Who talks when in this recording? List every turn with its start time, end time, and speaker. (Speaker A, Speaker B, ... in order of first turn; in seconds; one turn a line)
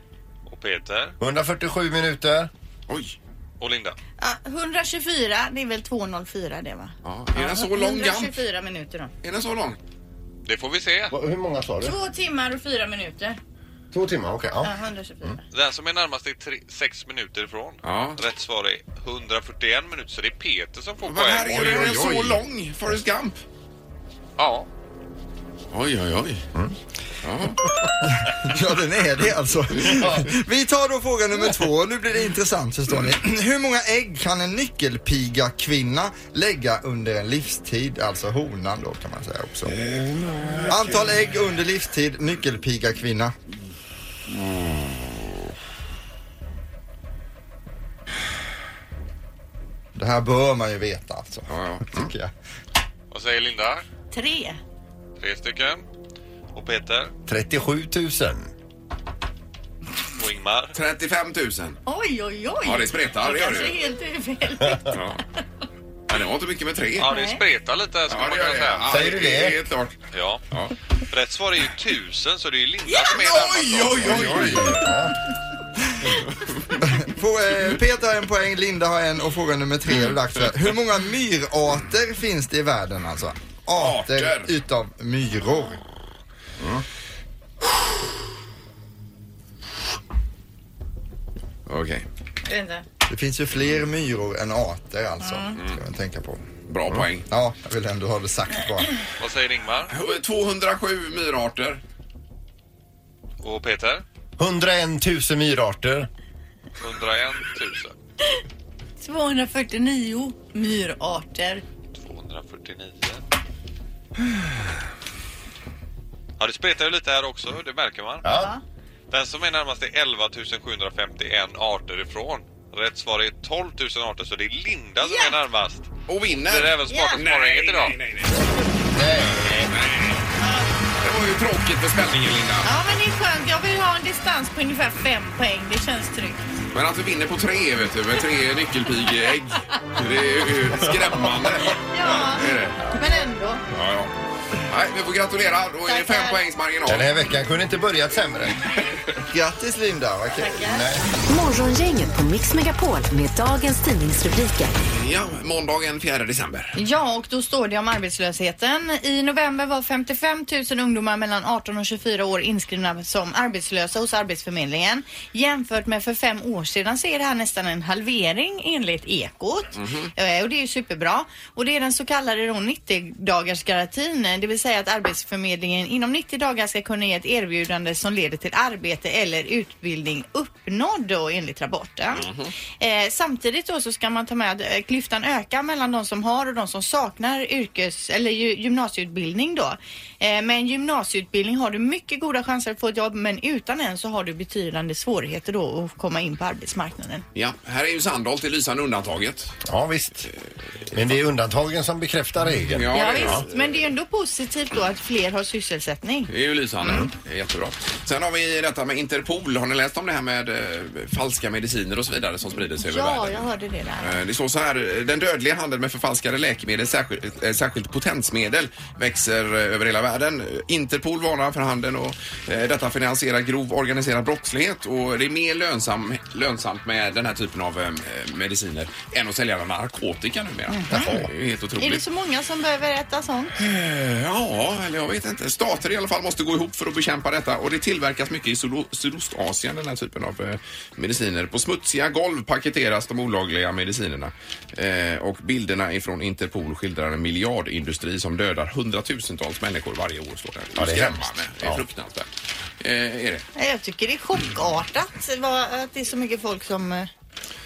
Speaker A: 0.5-1.1
Speaker B: 1.2-2.5
Speaker C: 2.9-3.1
Speaker A: 3.6-4.0
Speaker D: 4.2-9.1
Speaker C: 7.0-8.4
Speaker C: 9.2-9.8
Speaker A: 10.4-11.1
Speaker B: 11.1-12.0
Speaker D: 11.8-13.4
Speaker B: 13.9-15.3
Speaker D: 14.6-15.4
Speaker A: 15.5-22.2
Speaker C: 17.8-18.2
Speaker C: 21.1-23.3
Speaker B: 21.4-22.4
Speaker A: 24.4-24.6
Speaker C: 25.7-26.4
Speaker C: 27.2-27.6
Speaker E: 28.0-39.7
Speaker B: 29.8-30.3
Speaker C: 39.8-40.7
Speaker E: 40.6-43.3
Speaker E: 50.0-52.3
Speaker C: 51.5-52.1
Speaker A: 53.1-53.8
Speaker D: 54.1-54.6
Speaker A: 55.2-55.8
Speaker A: 56.5-57.1
Speaker B: 57.3-58.5
Speaker A: 60.2-60.7
Speaker C: 60.7-61.8
Speaker D: 61.9-64.9
Speaker C: 62.6-63.8
Speaker C: 64.9-65.2
Speaker C: 66.1-67.1
Speaker A: 67.0-69.2
Speaker D: 67.0-67.4
Speaker C: 68.1-70.0
Speaker B: 68.9-69.5
Speaker A: 70.1-70.4
Speaker A: 71.1-74.4
Speaker D: 72.8-73.2
Speaker C: 73.1-74.9
Speaker B: 74.0-75.2
Speaker E: 76.9-85.8
Speaker C: 83.7-84.5
Speaker C: 91.7-92.0
Speaker D: 92.5-92.8
Speaker E: 93.1-96.5
Speaker D: 95.2-95.5
Speaker C: 96.7-97.3
Speaker E: 97.3-99.0
Speaker A: 99.2-99.9
Speaker C: 99.9-101.8
Speaker A: 103.4-104.0
Speaker B: 104.4-106.1
Speaker A: 106.8-107.9
Speaker D: 109.0-111.6
Speaker A: 111.9-113.2
Speaker A: 116.4-118.2
Speaker B: 118.2-118.5
Speaker D: 118.3-118.6
Speaker A: 119.1-128.0
Speaker D: 125.0-125.4
Speaker C: 126.1-128.5
Speaker D: 126.9-127.2
Speaker B: 128.9-129.7
Speaker C: 129.4-130.2
Speaker D: 130.4-130.7
Speaker C: 131.0-132.7
Speaker D: 132.6-136.4
Speaker C: 136.7-142.8
Speaker B: 140.8-141.1
Speaker D: 141.9-143.6
Speaker C: 143.7-144.1
Speaker C: 144.7-147.2
Speaker D: 145.9-146.4
Speaker B: 146.8-148.6
Speaker E: 149.3-150.6
Speaker D: 150.3-150.9
Speaker B: 150.6-151.1
Speaker F: 151.3-154.7
Speaker C: 154.9-156.8
Speaker D: 156.8-182.3
Speaker C: 169.8-170.1
Speaker C: 182.1-182.5
Speaker D: 182.8-197.2
Speaker C: 197.3-199.6
Speaker B: 199.6-200.3
Speaker B: 200.9-203.4
Speaker C: 202.7-203.7
Speaker D: 202.9-206.3
Speaker C: 206.3-213.5
Speaker D: 212.8-214.2
Speaker C: 214.0-232.0
Speaker D: 230.7-231.2
Speaker B: 230.9-231.3
Speaker D: 231.8-233.5
Speaker C: 233.6-252.3
Speaker B: 250.8-251.8
Speaker C: 252.8-253.4
Speaker D: 253.6-257.1